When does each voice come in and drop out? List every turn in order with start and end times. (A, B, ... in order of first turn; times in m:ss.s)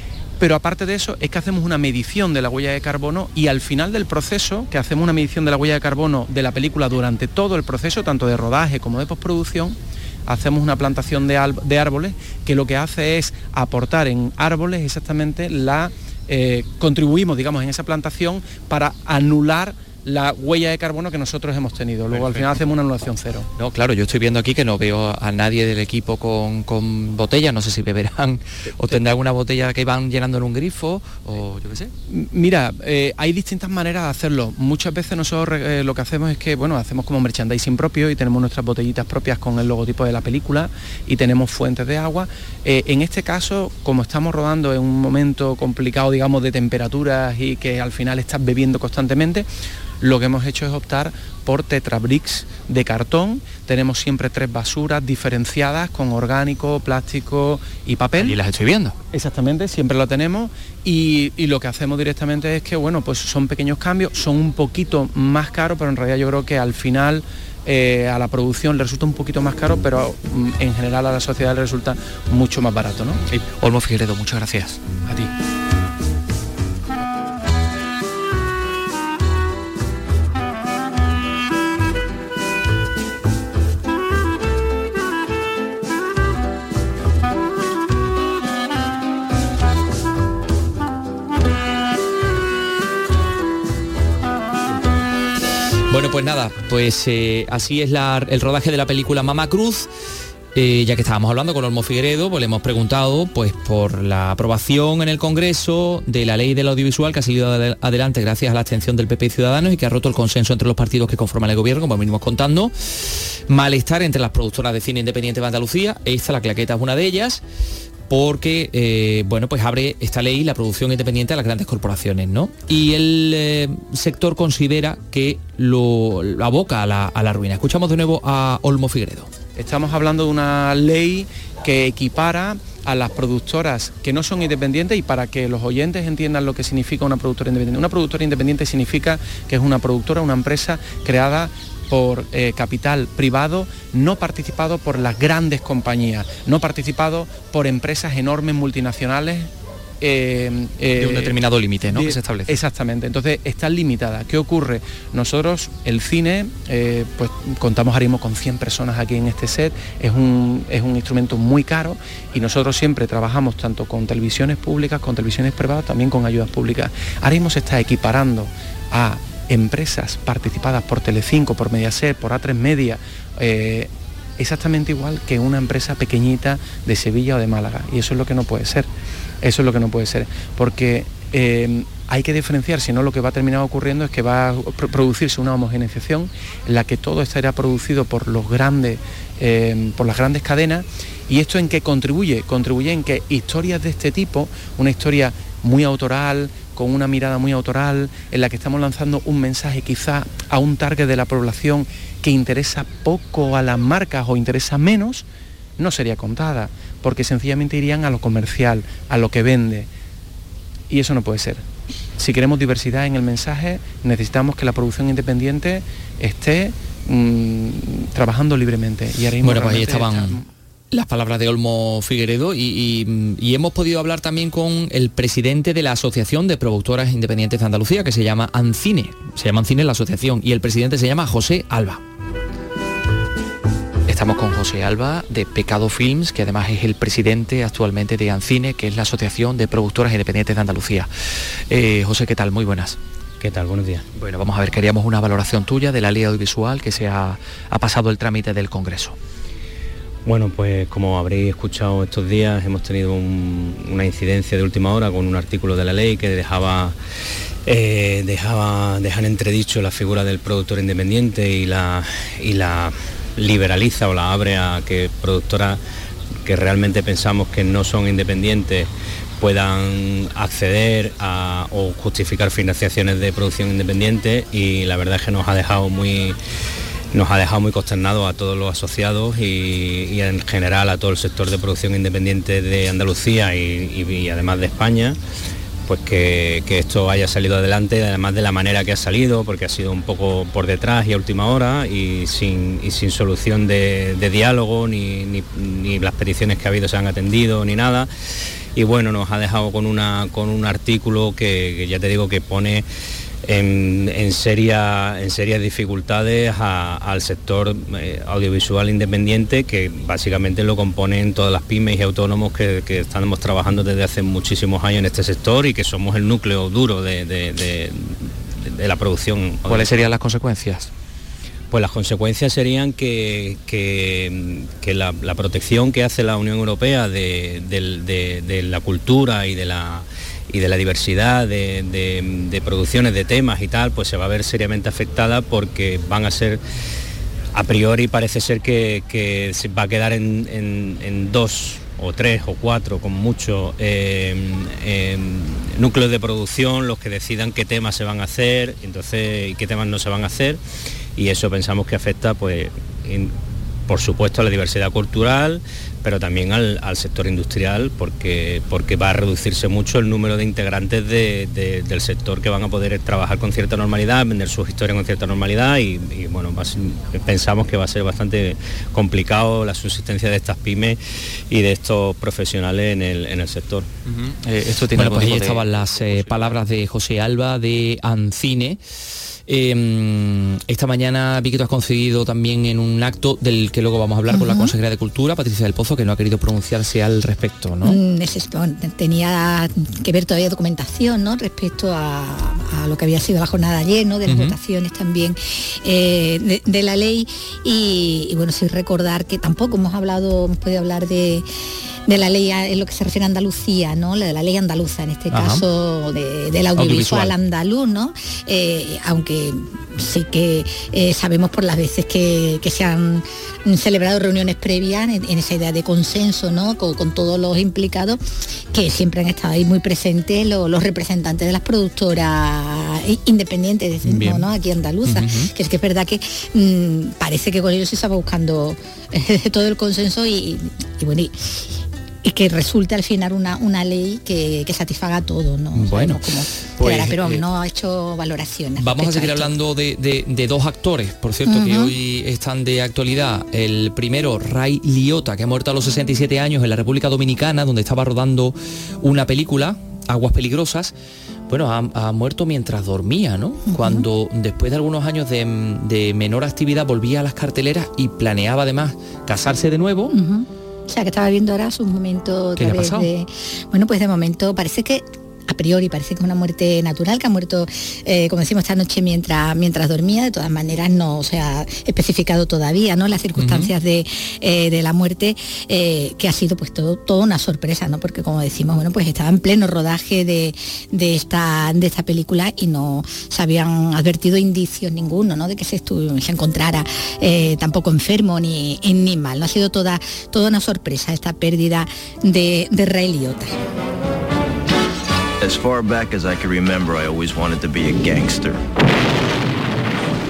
0:00.4-0:23.5 A
0:22.2-0:22.5 B
0:23.5-0:31.9 B
0:32.1-0:49.4 A
0:50.0-0:58.4 A
0:58.2-0:59.0 B
0:59.1-1:13.2 A
1:13.3-1:15.0 B
1:35.9-1:39.9 B
1:40.5-1:57.4 B
1:58.1-2:09.3 B
2:09.6-2:58.9 A
2:31.0-2:32.6 B
2:59.4-3:25.2 A
3:25.8-3:29.9 A
3:30.9-3:31.6 A
3:32.2-3:40.5 A
3:39.4-3:40.4 B
3:40.9-3:52.0 B
3:54.1-4:01.1 B
4:01.7-4:03.0 B
4:03.4-4:04.0 C
4:04.2-4:09.1 B
4:10.2-4:16.9 C
4:17.6-4:25.8 C
4:26.4-4:28.9 C
4:29.4-4:36.4 C
4:37.1-4:45.2 C
4:45.8-4:58.1 C
4:58.8-5:02.8 C
5:03.4-5:20.0 C
5:19.6-5:20.9 B
5:21.7-5:36.6 C
5:37.5-5:50.6 C
5:51.2-5:53.3 C
5:53.9-6:11.0 C
6:11.5-6:13.9 C
6:14.1-6:18.8 B
6:19.4-6:28.0 B
6:24.3-6:24.7 D
6:27.8-6:41.4 D
6:34.2-6:34.6 B
6:42.0-7:19.6 D
6:45.3-6:45.6 B
6:46.8-6:47.3 B
7:04.0-7:04.5 B
7:05.0-7:05.5 B
7:15.7-7:17.4 B
7:18.8-7:30.9 B
7:21.4-7:21.9 D
7:31.5-7:40.1 B
7:33.6-7:34.0 D
7:40.1-8:13.5 D
7:42.6-7:43.1 B
7:53.4-7:53.7 B
8:15.4-8:18.6 E